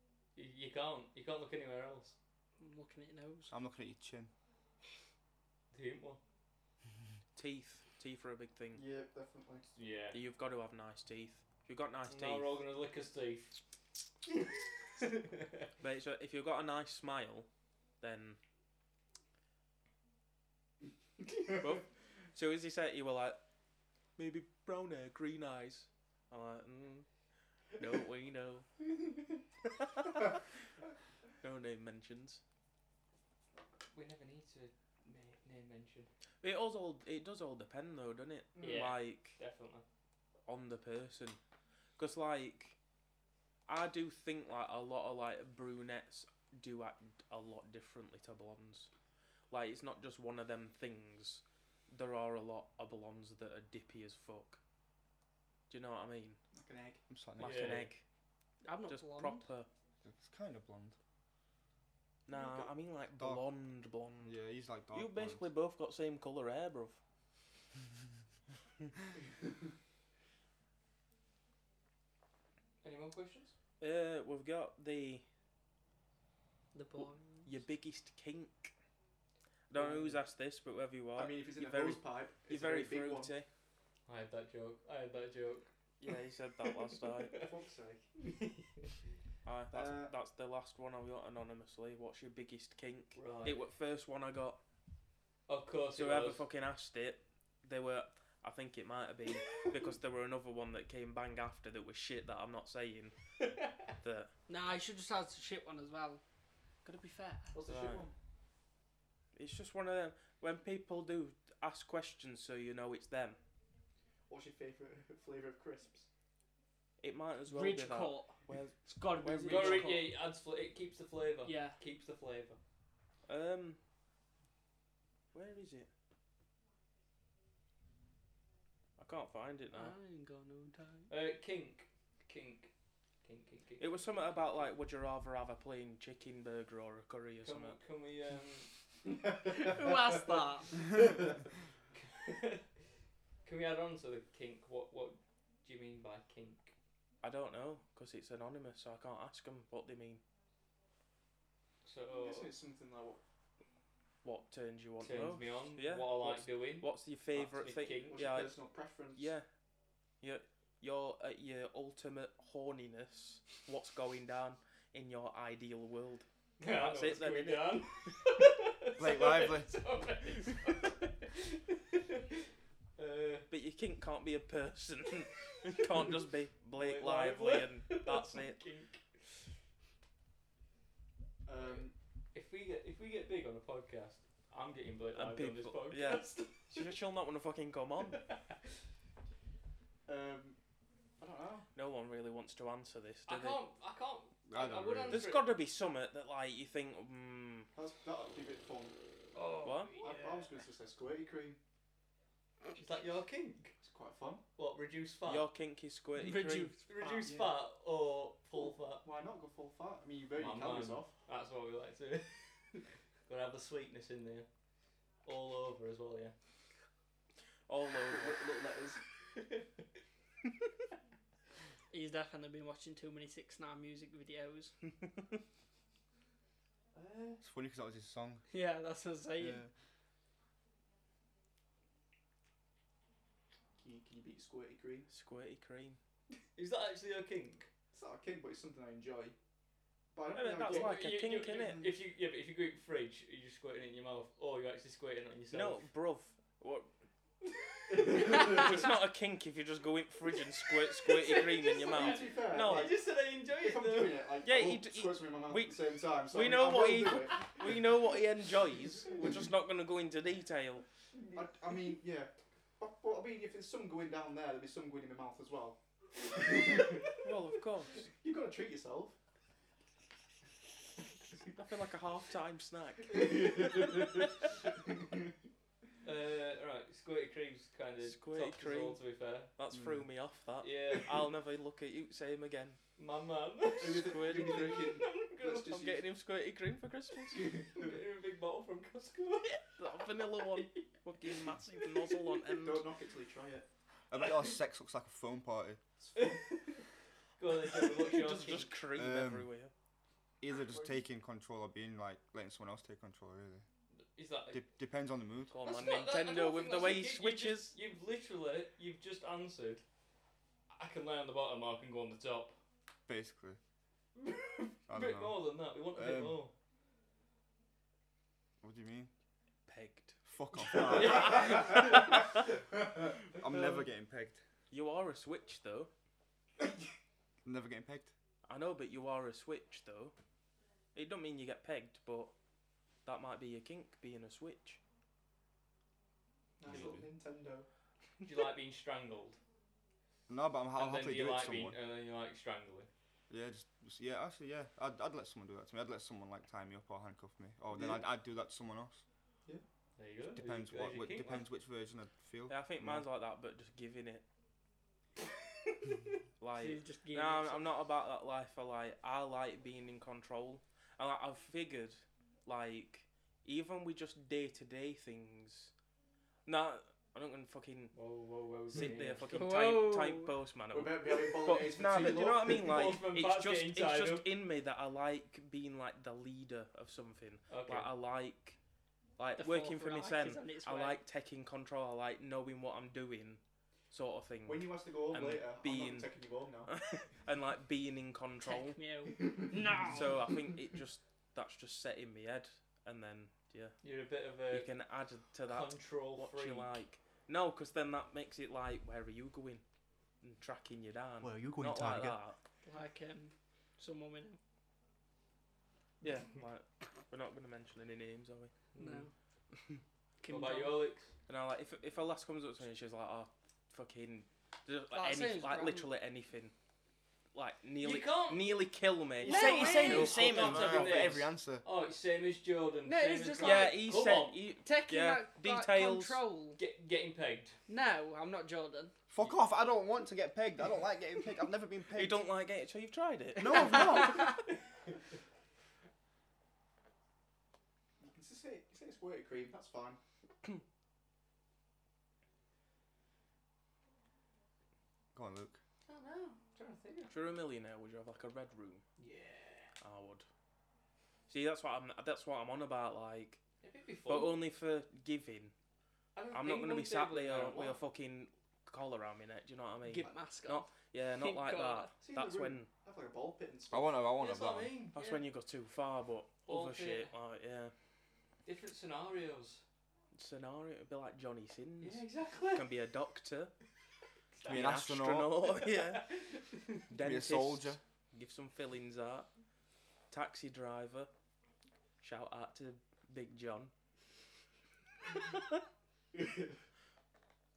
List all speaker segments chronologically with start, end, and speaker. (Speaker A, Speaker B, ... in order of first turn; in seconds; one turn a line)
Speaker A: 0.3-2.1
Speaker B: 2.6-3.5
Speaker C: 3.5-4.3
Speaker A: 5.7-6.2
Speaker D: 7.3-8.8
Speaker E: 8.7-9.8
Speaker A: 9.8-10.2
Speaker D: 10.1-12.6
Speaker A: 12.1-13.6
Speaker A: 15.0-15.7
Speaker D: 15.8-17.5
Speaker D: 18.0-18.4
Speaker D: 21.5-23.4
Speaker D: 24.2-27.1
Speaker D: 27.8-28.7
Speaker D: 29.8-30.3
Speaker D: 31.4-32.4
Speaker A: 33.9-36.1
Speaker D: 36.4-39.4
Speaker A: 38.6-39.8
Speaker D: 40.5-41.4
Speaker D: 42.0-42.8
Speaker D: 43.7-48.9
Speaker D: 49.5-54.6
Speaker D: 55.7-56.4
Speaker E: 56.5-57.0
Speaker C: 57.1-57.9
Speaker D: 57.4-58.0
Speaker A: 57.4-57.9
Speaker B: 58.6-59.5
Speaker D: 58.9-59.7
Speaker C: 60.0-61.0
Speaker D: 62.3-64.4
Speaker E: 62.3-62.7
Speaker C: 64.2-65.5
Speaker D: 64.9-67.0
Speaker A: 72.8-73.5
Speaker D: 73.8-75.2
Speaker B: 76.7-77.5
Speaker D: 77.0-78.7
Speaker D: 79.7-83.5
Speaker E: 79.7-80.2
Speaker E: 81.2-83.3
Speaker A: 84.1-85.7
Speaker D: 86.0-87.4
Speaker A: 87.0-87.5
Speaker E: 87.3-88.1
Speaker A: 88.2-88.9
Speaker D: 89.5-94.6
Speaker E: 89.7-90.1
Speaker A: 93.2-93.6
Speaker A: 95.5-96.4
Speaker D: 95.9-103.2
Speaker A: 103.5-103.8
Speaker D: 104.0-104.3
Speaker B: 104.5-106.2
Speaker B: 106.8-107.5
Speaker E: 107.5-108.1
Speaker D: 107.7-108.0
Speaker D: 109.3-113.4
Speaker E: 114.3-116.1
Speaker D: 117.0-120.0
Speaker B: 117.5-120.1
Speaker A: 119.5-122.6
Speaker B: 121.5-121.8
Speaker D: 123.3-123.8
Speaker D: 125.3-125.9
Speaker D: 129.0-129.9
Speaker B: 129.7-131.1
Speaker A: 131.1-132.7
Speaker A: 133.2-134.6
Speaker D: 133.8-137.8
Speaker A: 137.4-138.7
Speaker E: 139.2-139.8
Speaker B: 139.4-140.8
Speaker A: 141.9-142.6
Speaker A: 143.4-146.7
Speaker D: 147.2-150.2
Speaker A: 151.8-152.5
Speaker E: 152.1-153.2
Speaker D: 154.2-158.6
Speaker A: 155.0-158.3
Speaker E: 158.1-159.3
Speaker D: 159.2-159.5
Speaker D: 160.2-168.2
Speaker A: 166.6-172.4
Speaker C: 169.0-169.7
Speaker A: 173.0-173.5
Speaker D: 173.5-178.6
Speaker A: 176.8-179.4
Speaker E: 181.5-181.9
Speaker A: 181.6-186.9
Speaker D: 185.2-188.2
Speaker A: 188.1-188.5
Speaker E: 190.1-190.6
Speaker E: 191.2-191.7
Speaker D: 191.8-193.6
Speaker A: 193.3-195.5
Speaker C: 194.5-195.2
Speaker D: 195.1-197.7
Speaker E: 197.8-198.9
Speaker A: 199.4-200.4
Speaker D: 199.6-200.0
Speaker E: 200.0-201.6
Speaker A: 202.7-203.8
Speaker E: 203.8-204.4
Speaker A: 204.6-205.5
Speaker D: 205.2-206.8
Speaker B: 206.2-206.8
Speaker A: 206.8-209.0
Speaker E: 207.0-207.6
Speaker E: 209.0-211.2
Speaker A: 210.4-214.5
Speaker A: 215.2-216.3
Speaker D: 217.7-218.4
Speaker E: 218.1-219.0
Speaker A: 219.3-219.7
Speaker B: 221.9-224.7
Speaker A: 226.9-227.4
Speaker C: 227.4-228.4
Speaker B: 228.5-229.6
Speaker E: 233.8-235.1
Speaker D: 235.1-236.0
Speaker A: 236.6-237.7
Speaker E: 237.9-239.3
Speaker E: 240.1-241.1
Speaker D: 240.3-241.9
Speaker A: 240.6-245.8
Speaker D: 245.5-246.9
Speaker A: 247.4-248.7
Speaker E: 247.9-248.9
Speaker D: 248.1-252.9
Speaker A: 250.3-254.3
Speaker E: 251.9-257.8
Speaker D: 254.4-260.9
Speaker E: 261.3-267.3
Speaker D: 267.2-268.1
Speaker E: 268.0-269.2
Speaker D: 271.4-274.2
Speaker E: 273.2-274.2
Speaker E: 274.9-275.2
Speaker A: 276.0-279.5
Speaker D: 278.0-279.0
Speaker D: 279.6-282.8
Speaker A: 280.6-281.2
Speaker A: 283.0-285.8
Speaker E: 283.8-286.0
Speaker D: 283.9-284.9
Speaker D: 285.7-287.5
Speaker E: 287.3-287.9
Speaker A: 287.7-289.9
Speaker D: 289.8-292.9
Speaker A: 290.4-290.8
Speaker E: 292.5-293.6
Speaker C: 294.1-295.8
Speaker E: 296.0-296.6
Speaker A: 296.2-296.8
Speaker A: 297.4-298.8
Speaker D: 298.0-299.7
Speaker C: 299.0-299.5
Speaker C: 300.4-303.6
Speaker A: 304.1-304.6
Speaker C: 304.5-305.5
Speaker D: 305.5-307.8
Speaker A: 305.6-309.8
Speaker A: 310.7-312.6
Speaker C: 313.1-313.6
Speaker A: 314.2-316.5
Speaker C: 314.9-316.4
Speaker C: 318.6-319.1
Speaker D: 319.7-320.2
Speaker C: 320.3-321.5
Speaker D: 320.7-322.2
Speaker A: 320.9-321.8
Speaker E: 321.1-322.0
Speaker C: 323.3-324.4
Speaker D: 324.7-325.9
Speaker C: 327.4-328.1
Speaker D: 328.5-330.1
Speaker D: 330.9-332.3
Speaker D: 333.1-334.8
Speaker E: 336.6-337.7
Speaker C: 336.7-337.0
Speaker A: 338.2-339.4
Speaker C: 340.3-341.8
Speaker A: 340.8-342.9
Speaker C: 343.3-349.0
Speaker E: 347.7-348.0
Speaker A: 350.0-351.5
Speaker C: 350.4-353.1
Speaker D: 352.5-354.2
Speaker D: 356.4-365.7
Speaker B: 356.6-357.7
Speaker D: 366.5-367.9
Speaker A: 367.9-369.4
Speaker D: 368.7-378.6
Speaker B: 369.3-370.3
Speaker E: 370.7-372.7
Speaker A: 372.5-374.3
Speaker A: 377.5-377.9
Speaker D: 379.2-386.1
Speaker B: 379.4-381.0
Speaker E: 384.4-386.7
Speaker D: 386.7-388.8
Speaker B: 388.4-390.2
Speaker E: 389.2-390.1
Speaker D: 389.9-393.8
Speaker A: 393.8-394.7
Speaker D: 394.5-399.6
Speaker A: 395.5-396.7
Speaker D: 400.2-402.4
Speaker E: 401.2-402.2
Speaker B: 402.7-404.4
Speaker D: 406.0-408.5
Speaker A: 408.7-409.1
Speaker B: 408.8-409.1
Speaker B: 410.2-410.8
Speaker A: 410.3-411.1
Speaker D: 411.3-416.5
Speaker B: 414.9-415.9
Speaker D: 417.4-421.2
Speaker A: 417.8-418.5
Speaker B: 419.2-420.3
Speaker A: 419.2-424.4
Speaker C: 419.3-421.6
Speaker B: 422.9-423.9
Speaker D: 423.4-426.2
Speaker B: 424.6-426.6
Speaker A: 426.6-427.6
Speaker B: 427.7-428.9
Speaker C: 429.1-432.2
Speaker D: 431.9-434.3
Speaker C: 433.4-434.2
Speaker B: 433.6-434.4
Speaker E: 438.0-440.0
Speaker C: 445.1-445.6
Speaker A: 445.9-447.1
Speaker D: 447.1-448.8
Speaker A: 449.0-449.7
Speaker D: 449.8-450.3
Speaker D: 451.3-453.4
Speaker A: 453.6-454.4
Speaker D: 454.1-455.5
Speaker A: 456.1-457.8
Speaker D: 456.3-462.7
Speaker B: 459.8-461.9
Speaker E: 462.0-464.1
Speaker C: 463.7-464.8
Speaker A: 464.2-465.2
Speaker D: 464.9-467.7
Speaker A: 466.5-467.1
Speaker A: 468.4-469.6
Speaker D: 470.1-473.5
Speaker A: 471.8-472.7
Speaker A: 474.4-474.8
Speaker D: 474.4-476.1
Speaker C: 474.5-475.4
Speaker A: 475.6-476.8
Speaker D: 476.9-479.3
Speaker C: 476.9-477.8
Speaker D: 480.1-481.1
Speaker D: 482.0-483.7
Speaker E: 486.1-486.5